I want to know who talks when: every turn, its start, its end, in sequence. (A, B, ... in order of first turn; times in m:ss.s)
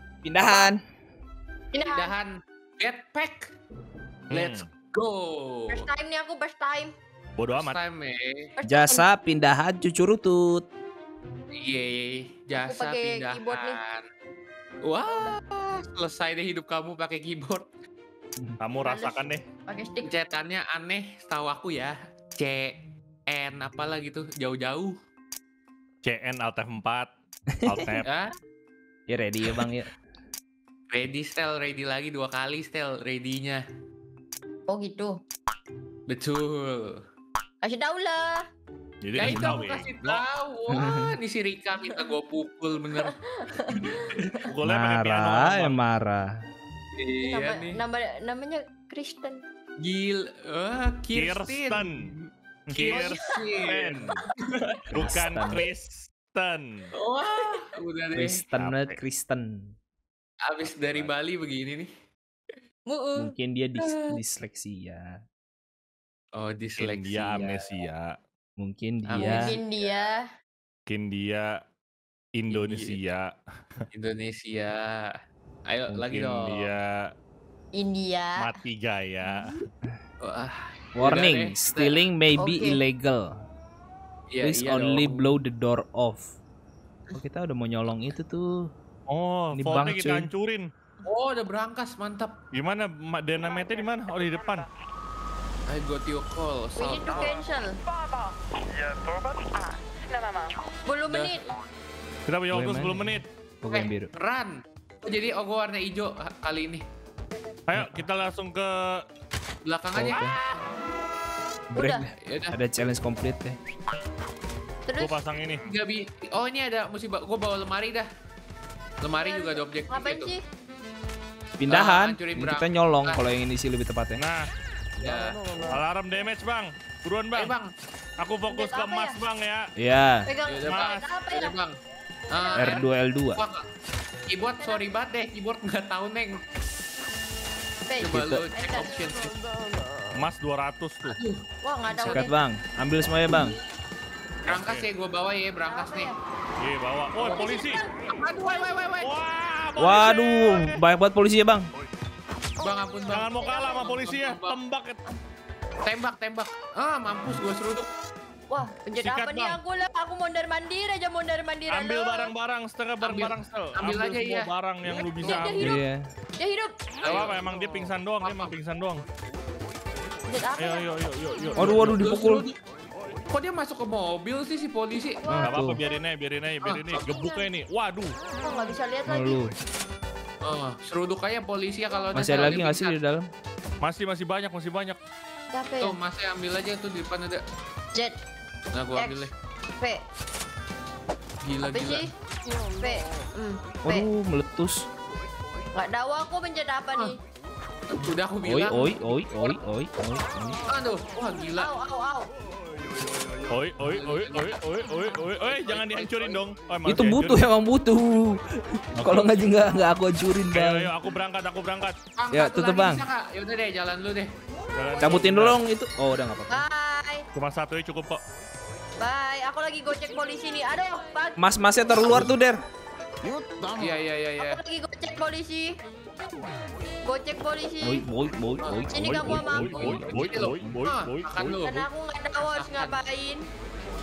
0:00.2-0:00.8 A
0:01.7-0:02.2 B
0:01.9-0:03.5 C
0:04.3-0:04.7 D
0:04.3-0:05.8 C
0:05.7-0:06.9 B
0:07.4-0:07.8 D
0:07.5-0:08.5 C
0:08.6-0:09.0 B
0:08.7-0:10.7 A
0:11.5-0:14.0 C
0:12.6-0:13.8 B
0:14.8-0:17.7 C
0:18.6-0:19.4 D
0:18.8-0:20.1 B
0:20.0-0:22.8 C
0:23.3-0:24.9 C
0:26.0-0:27.1 D
0:27.5-0:28.0 A
0:27.6-0:28.1 D
0:28.1-0:28.3 C
0:29.1-0:29.9 A
0:30.9-0:33.6 C
0:34.7-0:35.2 B
0:36.1-0:37.0 C
0:37.6-0:38.4 B
0:39.0-0:40.2 D
0:39.2-0:43.2 C
0:39.2-0:39.6 A
0:40.7-0:41.1 A
0:41.8-0:42.1 B
0:43.0-0:44.5 B
0:43.7-0:44.4 C
0:44.4-0:45.8 D
0:44.6-0:46.4 A
0:47.0-0:47.8 C
0:47.2-0:49.4 B
0:49.8-0:54.8 C
0:51.1-0:52.1 D
0:52.7-0:54.2 D
0:54.9-0:56.9 D
0:55.0-0:55.6 A
0:57.0-0:58.4 C
0:58.2-0:59.7 A
0:58.6-0:59.0 D
1:00.4-1:01.9 C
1:00.6-1:01.1 D
1:02.9-1:03.3 B
1:03.2-1:05.2 A
1:03.8-1:04.1 C
1:06.4-1:07.5 C
1:06.8-1:08.2 D
1:07.4-1:07.6 A
1:08.6-1:09.6 A
1:09.1-1:09.6 C
1:09.1-1:10.2 B
1:10.9-1:11.6 D
1:12.4-1:13.3 D
1:12.5-1:13.0 C
1:13.9-1:15.2 C
1:15.7-1:16.7 C
1:16.1-1:17.1 D
1:17.8-1:18.5 B
1:18.4-1:19.6 D
1:20.2-1:22.1 C
1:21.0-1:23.4 A
1:22.4-1:22.8 B
1:24.3-1:25.4 C
1:24.4-1:26.3 A
1:27.2-1:28.7 A
1:29.1-1:30.7 D
1:29.5-1:30.3 A
1:31.0-1:32.4 C
1:32.5-1:34.7 D
1:35.7-1:37.3 C
1:36.8-1:37.8 B
1:40.9-1:41.5 B
1:41.1-1:41.4 C
1:42.3-1:43.2 D
1:42.5-1:44.1 A
1:43.7-1:46.8 C
1:47.7-1:49.0 D
1:49.6-1:50.5 C
1:50.0-1:50.4 A
1:51.7-1:53.6 A
1:51.8-1:52.1 B
1:52.2-1:52.6 C
1:54.9-1:55.2 B
1:55.0-1:55.7 D
1:55.6-1:58.1 C
1:59.0-2:00.3 C
1:59.2-2:00.4 B
2:01.6-2:04.2 A
2:01.7-2:03.2 C
2:04.2-2:04.5 D
2:05.0-2:05.6 C
2:05.7-2:07.5 D
2:07.4-2:07.7 C
2:08.2-2:09.7 D
2:08.5-2:09.2 B
2:09.8-2:10.3 A
2:10.3-2:11.6 B
2:10.4-2:11.8 C
2:10.6-2:11.1 D
2:12.3-2:13.6 C
2:12.3-2:12.8 B
2:12.6-2:13.4 A
2:14.3-2:16.4 C
2:17.9-2:18.9 B
2:18.0-2:19.3 C
2:18.1-2:18.4 A
2:20.2-2:21.2 D
2:21.1-2:22.3 C
2:21.6-2:22.4 B
2:22.1-2:23.6 A
2:24.5-2:24.9 D
2:24.5-2:26.1 C
2:25.7-2:26.2 B
2:26.6-2:27.8 D
2:27.2-2:28.9 B
2:28.1-2:29.1 C
2:29.0-2:30.8 D
2:29.8-2:31.7 A
2:32.6-2:34.6 C
2:32.6-2:33.8 B
2:33.1-2:35.0 D
2:35.8-2:37.9 C
2:38.5-2:42.3 B
2:39.0-2:39.6 D
2:41.7-2:45.8 D
2:43.0-2:44.5 C
2:45.2-2:45.8 B
2:45.6-2:46.1 A
2:46.4-2:46.8 B
2:47.0-2:47.4 C
2:47.0-2:49.0 D
2:48.2-2:48.6 C
2:50.3-2:50.9 B
2:50.6-2:52.1 D
2:51.6-2:52.5 A
2:51.6-2:52.6 C
2:53.3-2:55.3 C
2:55.2-2:55.6 B
2:55.3-2:55.8 A
2:55.4-2:58.1 D
2:56.6-2:57.0 C
2:57.1-2:57.5 B
2:58.4-2:59.4 B
2:59.1-2:59.5 A
3:00.4-3:03.0 C
3:02.0-3:02.6 B
3:02.2-3:03.3 A
3:03.8-3:05.0 D
3:05.5-3:06.0 B
3:05.8-3:07.4 C
3:07.9-3:08.2 B
3:08.7-3:09.3 C
3:09.0-3:10.0 B
3:11.4-3:12.1 C
3:11.6-3:12.1 B
3:12.8-3:14.1 B
3:13.8-3:14.9 A
3:15.8-3:17.2 B
3:17.9-3:19.6 C
3:18.4-3:20.6 A
3:20.7-3:21.7 C
3:21.6-3:22.3 B
3:23.5-3:27.4 D
3:23.9-3:24.6 C
3:25.1-3:26.4 C
3:26.9-3:30.9 A
3:29.0-3:29.5 D
3:30.5-3:32.0 D
3:32.2-3:34.3 C
3:32.3-3:33.1 A
3:34.7-3:35.6 D
3:35.0-3:35.2 B
3:35.0-3:36.6 A
3:36.5-3:37.2 B
3:37.3-3:38.2 D
3:39.0-3:41.4 B
3:41.4-3:42.6 A
3:43.8-3:44.6 C
3:44.4-3:45.8 B
3:47.1-3:48.0 B
3:47.8-3:50.8 A
3:48.6-3:51.9 C
3:48.9-3:50.0 B
3:49.2-3:51.6 D
3:51.6-3:53.5 B
3:52.5-3:53.0 C